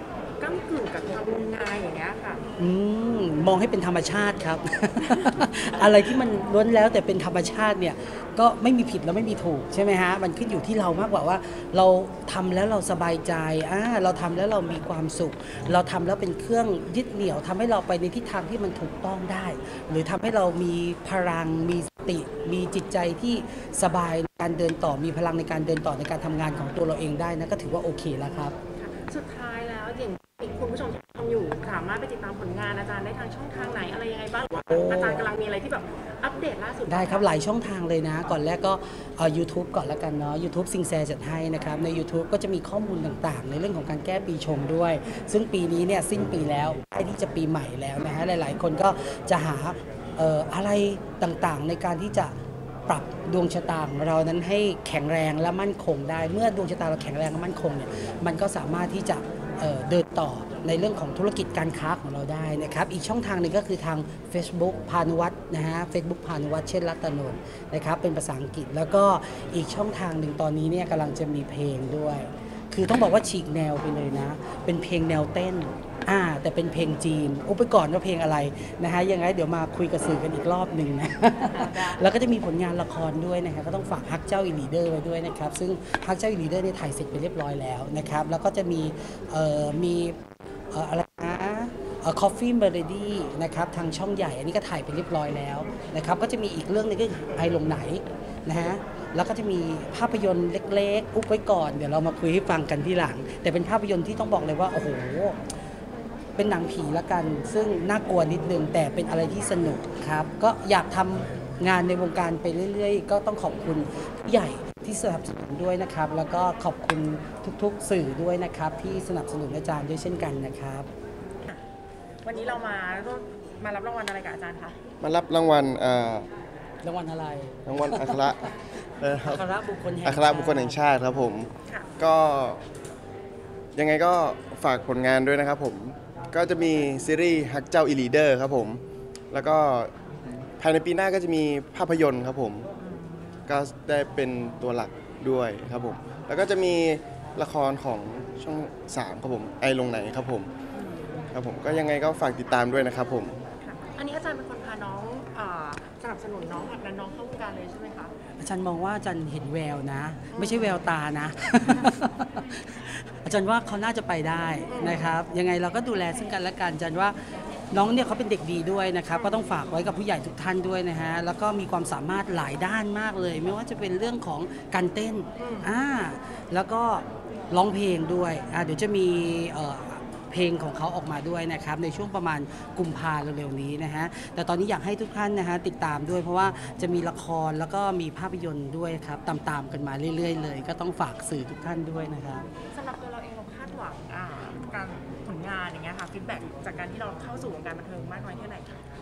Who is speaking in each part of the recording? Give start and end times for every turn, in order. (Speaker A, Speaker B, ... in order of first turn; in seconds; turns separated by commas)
Speaker A: 0.4-2.4, Speaker B: 2.6-28.6, Speaker A: 28.8-37.3, Speaker B: 34.7-35.3, Speaker B: 36.9-52.3, Speaker B: 52.9-90.2, Speaker B: 90.7-105.4, Speaker B: 106.4-120.9, Speaker A: 122.2-124.8, Speaker C: 125.0-126.3, Speaker B: 126.8-128.4, Speaker C: 127.7-129.4, Speaker B: 129.2-130.8, Speaker C: 130.1-132.6, Speaker C: 133.8-139.9, Speaker C: 140.6-142.7, Speaker A: 142.8-143.1, Speaker C: 143.5-150.5, Speaker A: 150.7-151.3, Speaker C: 151.3-153.4, Speaker A: 153.6-158.1, Speaker B: 158.4-167.2, Speaker A: 160.3-160.8, Speaker A: 164.7-165.1, Speaker B: 167.7-192.5, Speaker A: 169.1-169.4, Speaker A: 175.4-175.7, Speaker A: 192.6-198.8